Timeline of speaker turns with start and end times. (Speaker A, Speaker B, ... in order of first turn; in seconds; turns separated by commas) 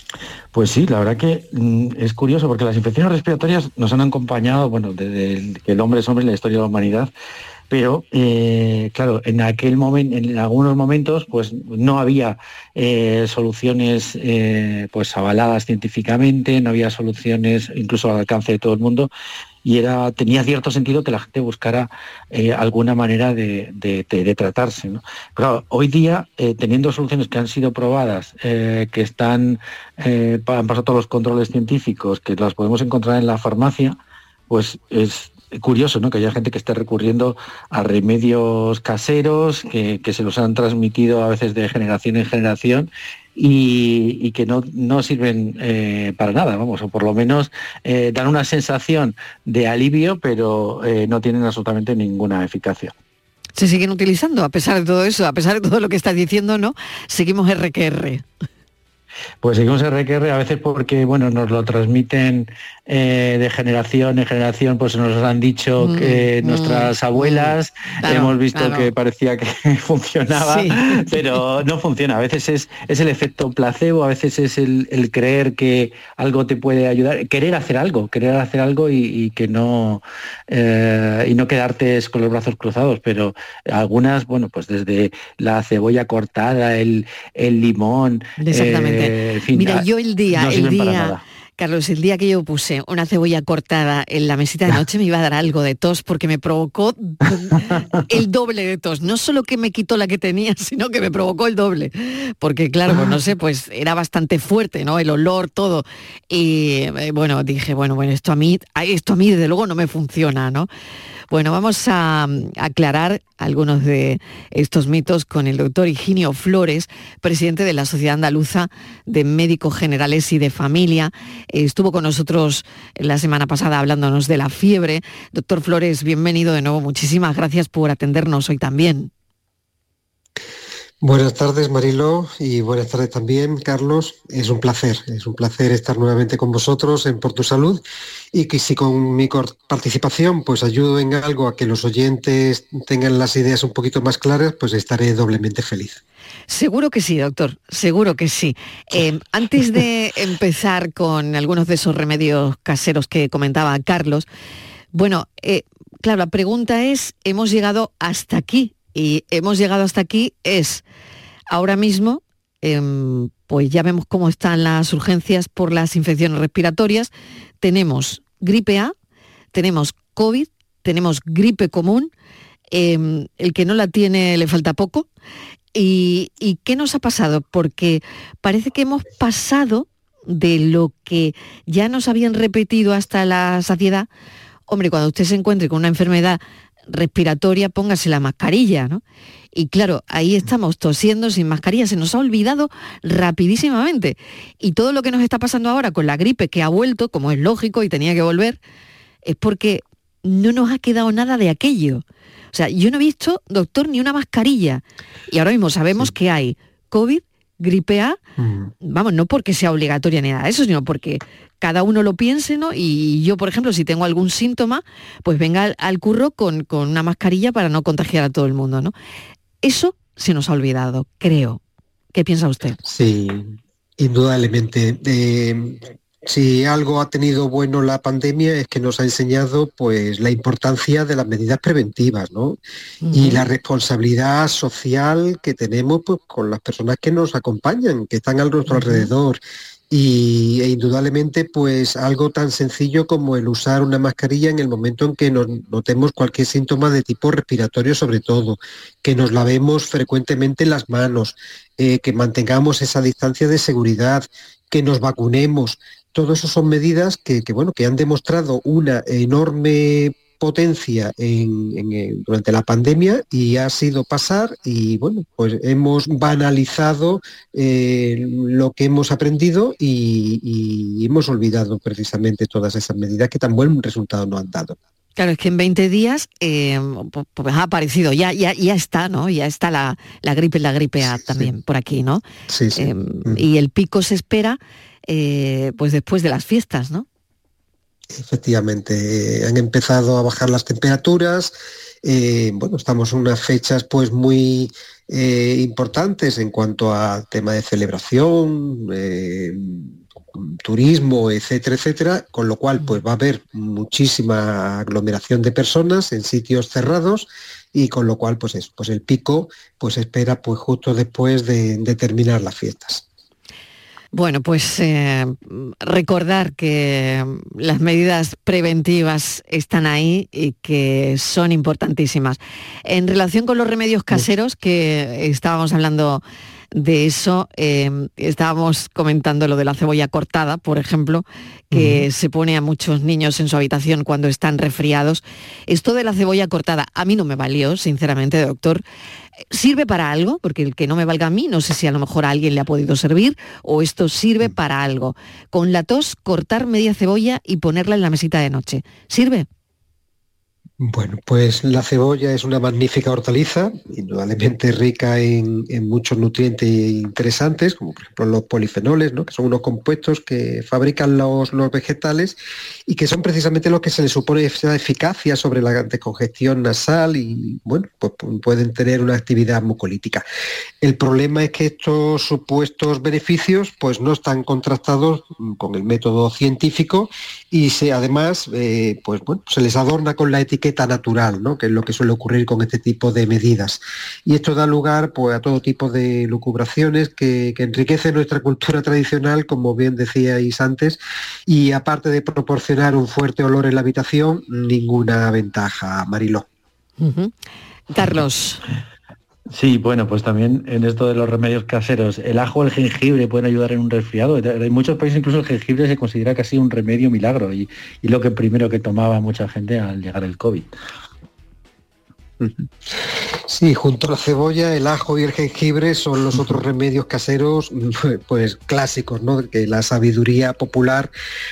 Speaker A: 0.5-7.1, Speaker A: 7.7-19.1, Speaker A: 19.6-52.9, Speaker B: 53.6-58.2, Speaker A: 59.4-91.2, Speaker B: 65.8-68.9, Speaker B: 70.3-71.2, Speaker B: 88.4-110.7, Speaker A: 97.5-97.8, Speaker B: 111.3-129.1, Speaker C: 131.0-146.0, Speaker B: 146.5-154.3, Speaker B: 154.9-160.8, Speaker B: 161.5-168.9, Speaker B: 169.5-172.1, Speaker B: 172.7-175.1, Speaker B: 175.7-184.1, Speaker B: 184.7-189.0, Speaker B: 189.5-198.6, Speaker B: 199.2-208.2, Speaker C: 208.4-208.7, Speaker B: 208.8-218.9, Speaker B: 219.6-221.6, Speaker B: 222.1-222.8, Speaker C: 222.8-232.6, Speaker B: 233.0-233.5, Speaker C: 233.1-274.8, Speaker B: 238.7-239.1, Speaker B: 275.2-282.2, Speaker C: 282.5-283.4, Speaker B: 282.8-287.1, Speaker C: 288.1-313.1, Speaker B: 314.1-338.8, Speaker C: 331.7-332.1, Speaker B: 339.5-349.5, Speaker C: 350.8-370.2, Speaker C: 370.8-396.5, Speaker B: 397.0-397.3, Speaker B: 397.9-398.6, Speaker A: 399.5-410.7, Speaker C: 412.4-421.1